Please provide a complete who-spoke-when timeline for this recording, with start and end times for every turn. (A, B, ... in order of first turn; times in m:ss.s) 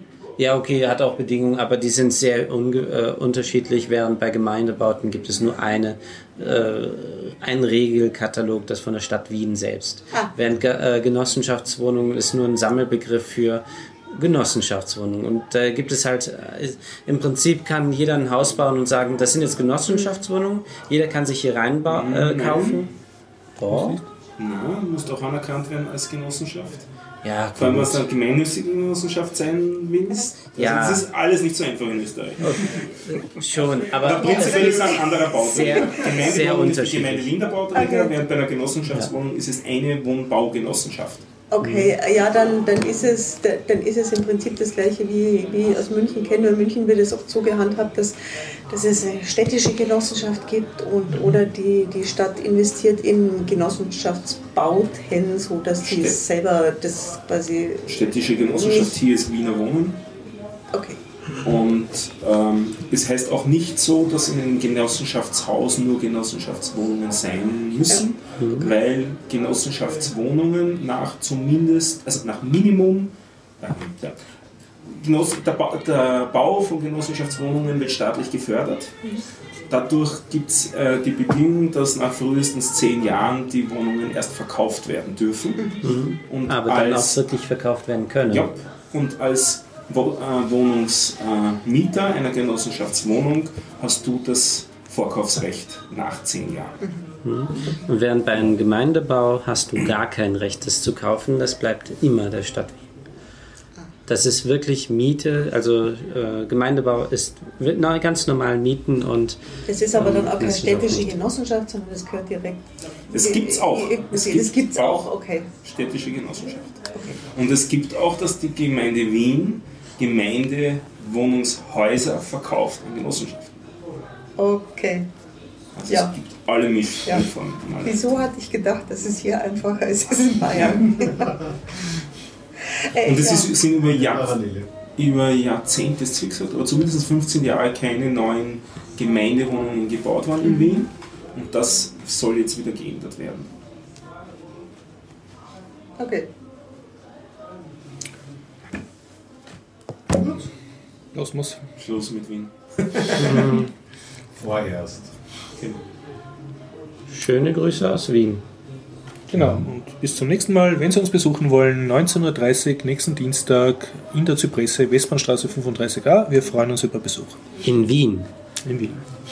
0:00.4-0:22.9 A
0:21.9-0:22.8 B
0:23.6-0:24.0 A
0:23.7-0:24.0 C
0:24.4-0:26.9 B
0:27.2-0:28.0 A
0:27.6-0:32.9 B
0:30.6-0:31.0 A
0:32.4-0:37.3 A
0:33.8-0:41.2 B
0:34.2-0:36.2 D
0:37.7-0:38.1 D
0:41.5-0:48.2 D
0:41.6-0:41.9 A
0:48.7-0:59.0 D
0:55.8-0:56.2 B
0:57.9-1:00.0 B
1:00.7-1:01.0 D
1:01.4-1:14.2 B
1:08.4-1:08.7 A
1:14.8-1:19.1 B
1:19.7-1:27.2 B
1:25.8-1:28.5 A
1:28.3-1:36.8 B
1:37.2-1:42.8 A
1:44.1-1:49.4 A
1:49.7-1:52.6 D
1:49.9-1:51.2 A
1:53.1-1:55.1 B
1:53.2-1:55.5 D
1:55.6-2:03.6 B
2:04.4-2:05.1 D
2:05.8-2:08.2 B
2:07.8-2:11.5 D
2:10.5-2:10.8 B
2:12.7-2:13.5 D
2:13.0-2:14.4 B
2:13.8-2:14.7 E
2:15.0-2:23.5 B
2:20.4-2:20.8 D
2:26.0-2:26.3 D
2:31.1-2:31.6 C
2:31.8-2:33.7 B
2:33.2-2:33.7 A
2:34.4-2:35.1 E
2:37.1-2:38.4 A
2:39.3-2:47.4 C
2:39.4-2:39.6 E
2:47.6-2:48.3 A
2:48.6-2:49.0 C